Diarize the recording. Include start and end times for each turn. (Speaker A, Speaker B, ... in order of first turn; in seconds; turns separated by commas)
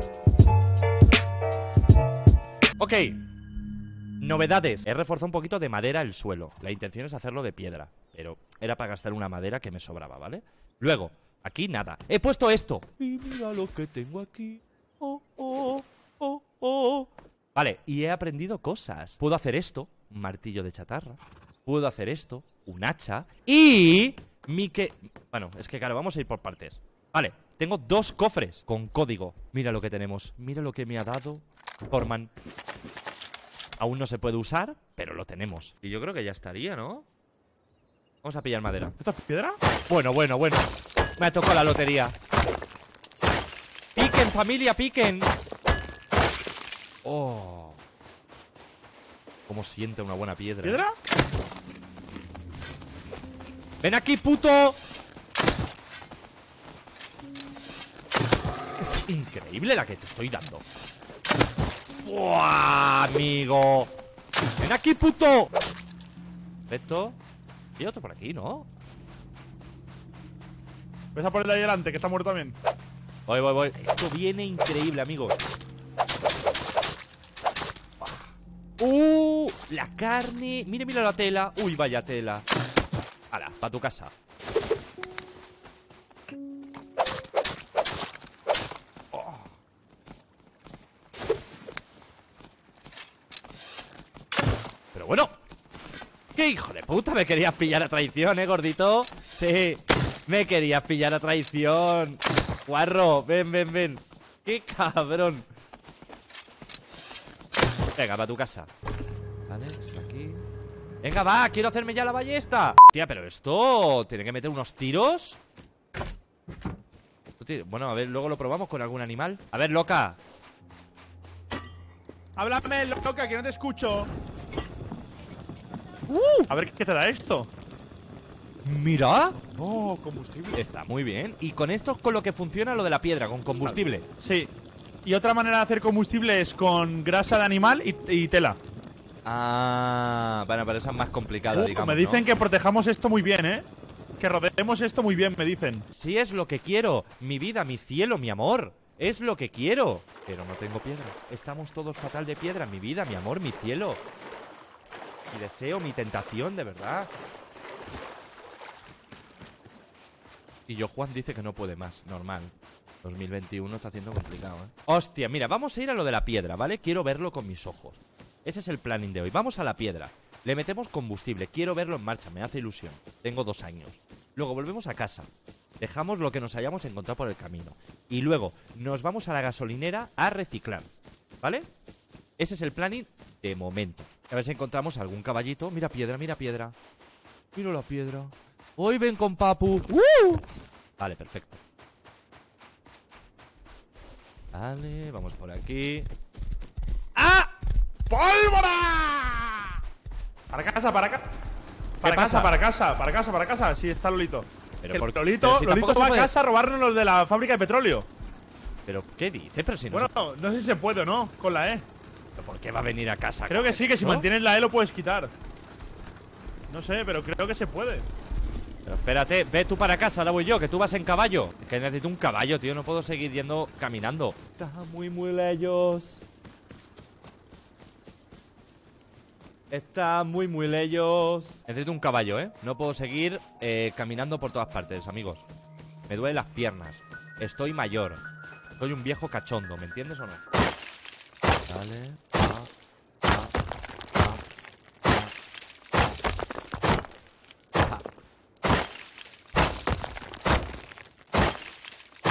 Speaker A: 2.8-3.2, Speaker A: 4.2-32.3, Speaker A: 33.8-37.0, Speaker A: 38.2-39.0, Speaker B: 39.0-39.6, Speaker A: 39.9-42.1, Speaker A: 44.0-45.3, Speaker A: 47.0-47.8, Speaker A: 49.5-50.8, Speaker B: 50.6-51.0, Speaker A: 53.8-54.8, Speaker A: 58.8-60.6, Speaker A: 62.0-63.9, Speaker A: 64.6-65.5, Speaker A: 66.7-67.2, Speaker A: 67.8-68.7, Speaker B: 71.1-72.6, Speaker A: 73.3-75.4, Speaker A: 78.0-82.4, Speaker A: 83.3-84.1, Speaker A: 89.1-89.5, Speaker A: 94.9-95.3, Speaker A: 96.3-105.5, Speaker A: 108.0-108.7, Speaker A: 109.5-110.4, Speaker A: 111.0-115.4, Speaker A: 117.4-120.2, Speaker B: 122.4-124.1, Speaker A: 126.1-126.5, Speaker B: 126.5-127.5, Speaker A: 128.6-129.4, Speaker B: 129.4-130.6, Speaker A: 130.5-134.0, Speaker B: 133.6-134.5, Speaker B: 135.0-138.6, Speaker A: 139.2-142.2, Speaker B: 141.5-143.7, Speaker B: 144.2-145.9, Speaker A: 145.9-154.0, Speaker A: 155.3-157.1, Speaker A: 160.7-175.3, Speaker A: 175.8-180.9, Speaker A: 181.4-181.7, Speaker A: 182.4-186.7, Speaker A: 187.5-190.4, Speaker A: 191.0-191.6, Speaker A: 194.5-196.1, Speaker A: 197.2-197.5, Speaker A: 198.1-199.7, Speaker B: 200.5-201.3, Speaker A: 202.0-202.6, Speaker B: 202.0-208.1, Speaker A: 204.8-206.3, Speaker A: 208.9-210.1, Speaker B: 209.9-211.8, Speaker A: 212.4-214.3, Speaker B: 213.5-215.3, Speaker B: 216.7-218.1, Speaker A: 218.8-226.2, Speaker A: 229.7-235.4, Speaker A: 236.1-238.2, Speaker A: 238.8-240.4, Speaker A: 241.7-242.7, Speaker A: 243.3-243.5, Speaker A: 244.1-244.4